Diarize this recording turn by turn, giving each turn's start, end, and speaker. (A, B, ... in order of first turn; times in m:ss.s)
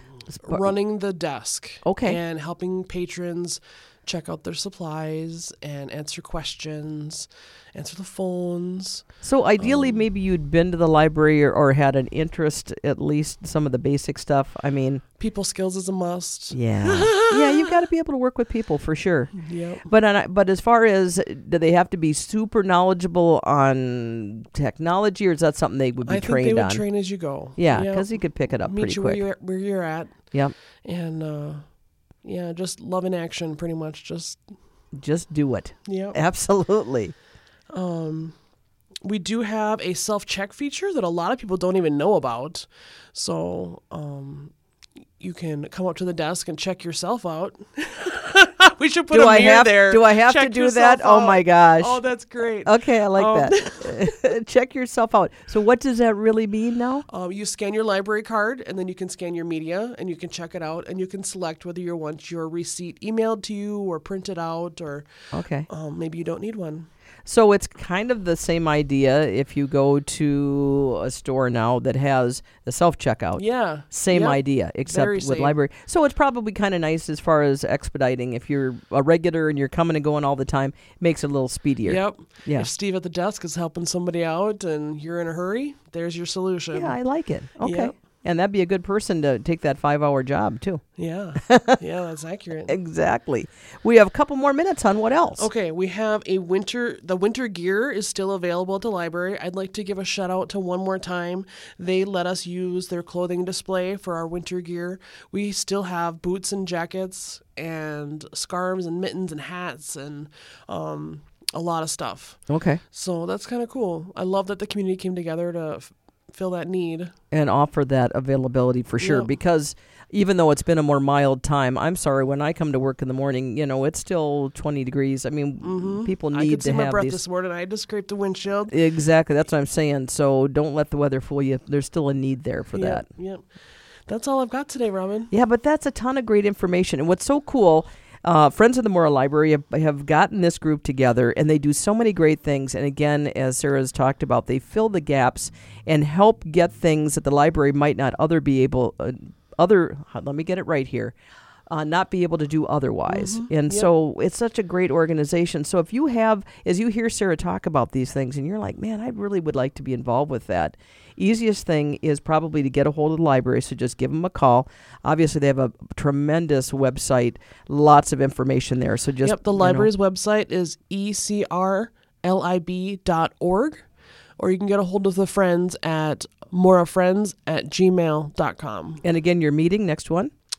0:00.3-0:00.6 A
0:00.4-0:09.1 B
0:01.8-0:02.2 A
0:09.2-0:15.0 A
0:09.6-0:10.0 B
0:15.2-0:17.7 B
0:16.5-0:19.3 A
0:19.3-0:19.9 B
0:19.8-0:26.8 A
0:26.0-0:30.2 B
0:27.6-0:29.2 A
0:30.8-0:31.6 B
0:32.2-0:34.4 B
0:35.0-0:37.1 A
0:35.8-0:36.2 B
0:37.7-0:38.3 B
0:39.0-0:44.5 B
0:45.2-0:54.1 B
0:49.1-0:52.0 A
0:52.6-0:57.1 A
0:57.1-1:05.1 B
1:05.3-1:05.7 A
1:05.7-1:06.9 B
1:07.2-1:22.7 A
1:13.4-1:15.6 B
1:21.8-1:27.0 B
1:26.7-1:30.8 A
1:27.6-1:27.9 B
1:31.0-1:32.8 B
1:31.4-1:31.8 A
1:32.7-1:35.5 A
1:35.4-1:52.4 B
1:52.5-1:52.8 A
1:52.9-1:57.1 B
1:57.3-2:07.2 A
1:59.0-1:59.3 B
2:05.6-2:08.7 B
2:08.7-2:13.0 A
2:12.7-2:13.4 B
2:14.1-2:15.3 B
2:15.3-2:31.1 A
2:31.7-2:49.9 A
2:33.1-2:33.9 B
2:49.2-2:53.8 B
2:54.4-2:59.0 B
2:59.0-3:00.3 A